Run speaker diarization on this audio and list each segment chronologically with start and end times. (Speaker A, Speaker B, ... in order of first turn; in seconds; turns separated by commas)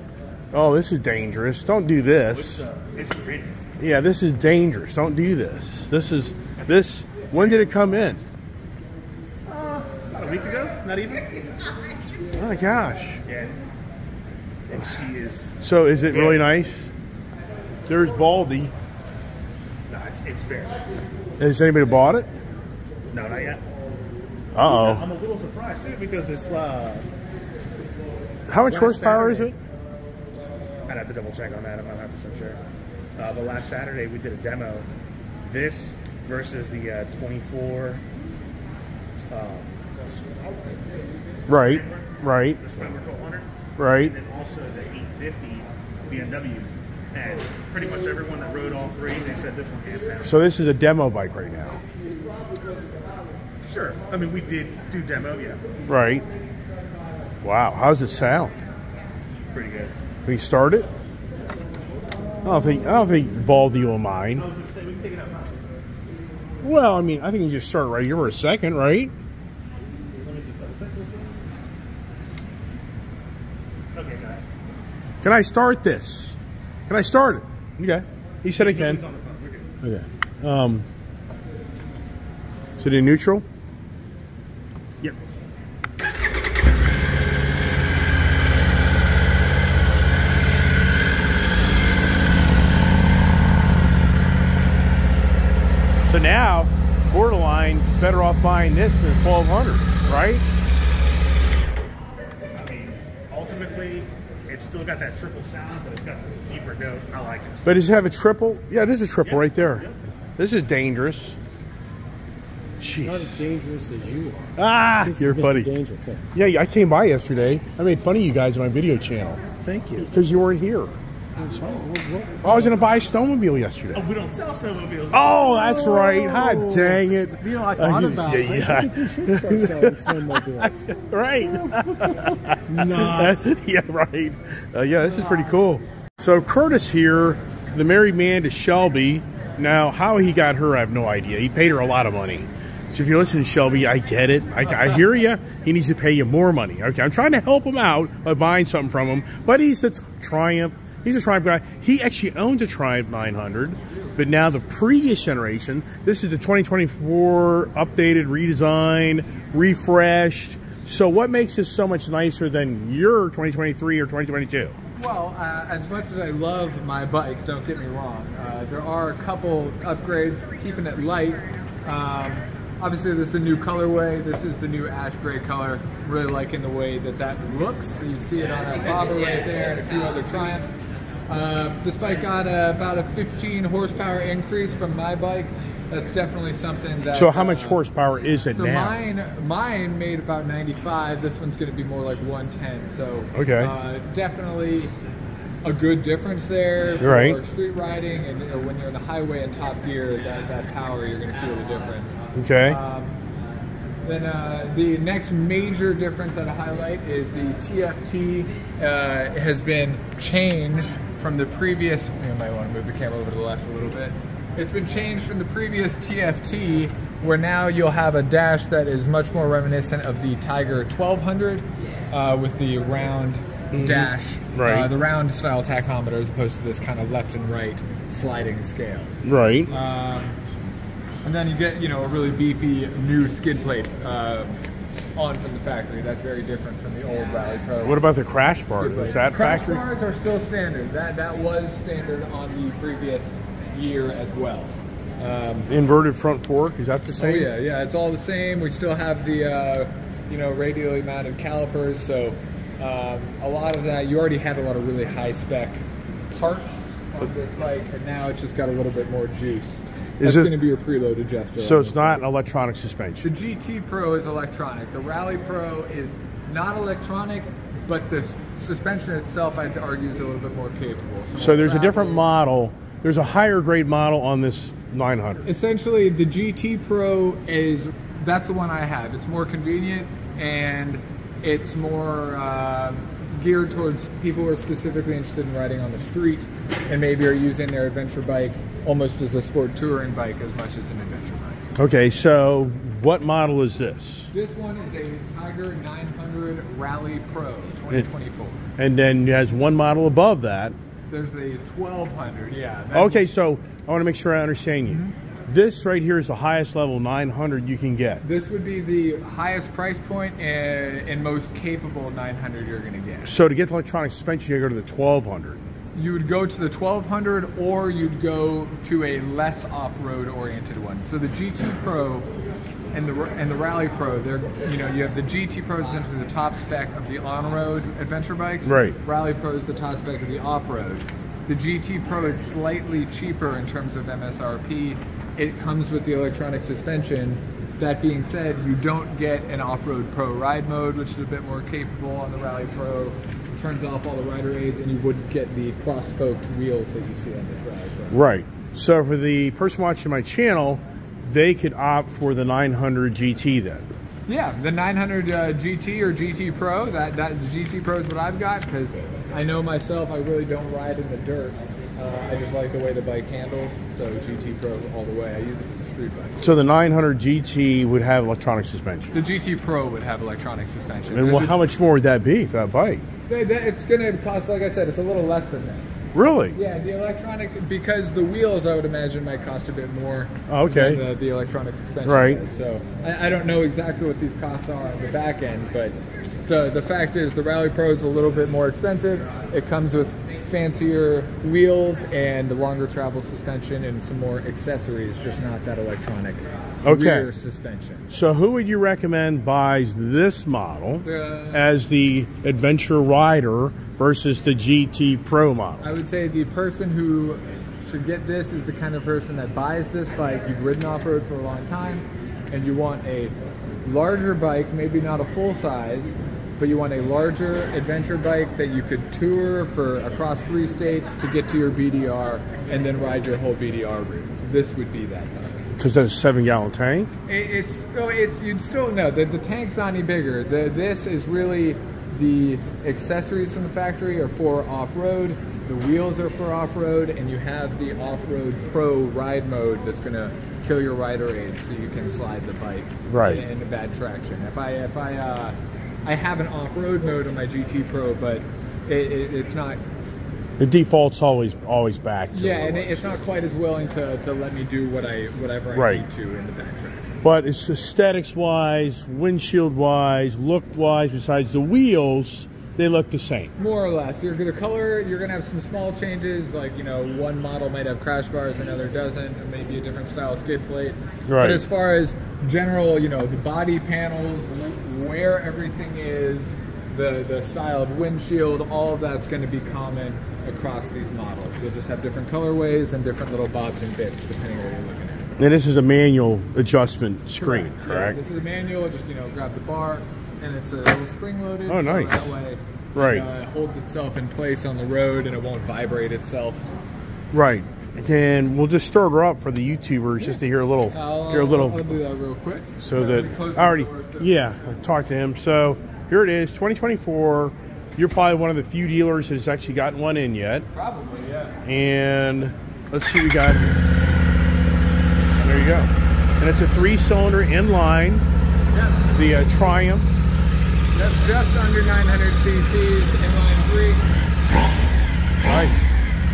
Speaker A: 0.5-2.7, Speaker B: 2.3-3.6, Speaker A: 3.8-8.2, Speaker B: 9.5-11.6, Speaker A: 12.3-13.2, Speaker B: 13.2-13.6, Speaker B: 14.7-16.4, Speaker A: 15.6-16.9, Speaker A: 17.9-18.7, Speaker B: 19.9-21.1, Speaker A: 21.4-22.3, Speaker B: 23.1-23.6, Speaker A: 24.6-25.1, Speaker B: 24.6-27.1, Speaker A: 28.5-29.6, Speaker B: 28.6-29.6, Speaker B: 30.9-32.6, Speaker B: 33.2-34.9, Speaker B: 35.5-38.0, Speaker B: 39.3-40.3, Speaker A: 41.5-42.6, Speaker B: 41.5-50.4, Speaker A: 43.8-44.1, Speaker A: 50.2-51.8, Speaker B: 53.6-55.8, Speaker A: 55.9-56.3, Speaker A: 57.4-58.6, Speaker B: 59.5-59.9, Speaker A: 60.3-60.9, Speaker A: 62.4-64.5, Speaker B: 64.3-65.6, Speaker A: 66.6-69.1, Speaker B: 70.1-71.4, Speaker B: 73.9-74.4, Speaker A: 75.2-79.0, Speaker B: 78.6-79.7, Speaker A: 79.8-80.8, Speaker A: 82.8-83.5, Speaker A: 96.1-100.4, Speaker B: 102.5-107.6, Speaker A: 107.6-111.4, Speaker B: 109.2-110.0, Speaker A: 112.8-113.5, Speaker C: 113.0-116.3, Speaker A: 114.6-115.7, Speaker A: 116.3-119.4, Speaker C: 119.6-120.1, Speaker A: 120.0-121.0, Speaker C: 121.3-122.8, Speaker A: 122.4-124.0, Speaker B: 123.9-125.4, Speaker A: 125.1-164.8, Speaker C: 125.4-130.9, Speaker C: 131.5-133.4, Speaker D: 165.0-180.8, Speaker D: 181.3-187.8, Speaker A: 187.1-189.0, Speaker D: 188.5-194.9, Speaker A: 193.3-193.7, Speaker D: 195.6-203.2, Speaker A: 197.0-197.4, Speaker A: 202.3-202.8, Speaker D: 204.0-229.2, Speaker A: 223.7-224.9, Speaker A: 229.2-229.7, Speaker D: 229.7-230.4, Speaker D: 231.2-234.6, Speaker D: 235.2-238.0, Speaker A: 237.8-239.8, Speaker D: 238.7-245.7, Speaker A: 245.7-247.5, Speaker D: 247.2-262.2, Speaker A: 260.2-260.6, Speaker A: 261.6-263.3, Speaker D: 263.2-272.2, Speaker A: 271.4-275.5, Speaker D: 275.4-291.7, Speaker A: 291.8-294.3, Speaker D: 294.3-298.6, Speaker A: 298.8-300.8, Speaker D: 301.1-303.3, Speaker A: 302.9-308.2, Speaker D: 304.9-305.1, Speaker D: 308.2-313.3, Speaker A: 313.2-315.6, Speaker D: 315.9-322.3, Speaker D: 322.9-348.2, Speaker A: 328.6-329.0, Speaker A: 348.1-353.9, Speaker D: 354.3-366.6, Speaker A: 366.4-369.2, Speaker D: 369.1-371.6, Speaker A: 371.1-373.1, Speaker D: 373.3-375.9, Speaker A: 376.1-376.6, Speaker D: 376.5-385.9, Speaker A: 380.5-381.1, Speaker A: 382.1-382.4, Speaker D: 386.5-398.1, Speaker A: 396.9-397.3, Speaker A: 398.1-405.9, Speaker D: 401.0-401.7, Speaker D: 405.8-425.7, Speaker A: 425.7-427.1, Speaker D: 427.3-449.8, Speaker A: 443.1-443.4, Speaker A: 450.6-453.2, Speaker D: 452.3-457.2, Speaker A: 455.7-456.0, Speaker A: 457.2-463.5, Speaker D: 463.6-485.3, Speaker A: 471.3-471.6, Speaker A: 485.4-488.2, Speaker D: 487.4-496.7, Speaker A: 491.7-492.3, Speaker A: 492.9-493.3, Speaker A: 497.3-502.0, Speaker D: 500.9-504.5, Speaker A: 502.8-510.7, Speaker D: 510.7-511.6, Speaker A: 511.6-513.8, Speaker A: 515.4-518.2, Speaker D: 518.7-519.3, Speaker A: 519.1-520.1, Speaker D: 520.9-524.1, Speaker A: 525.4-525.8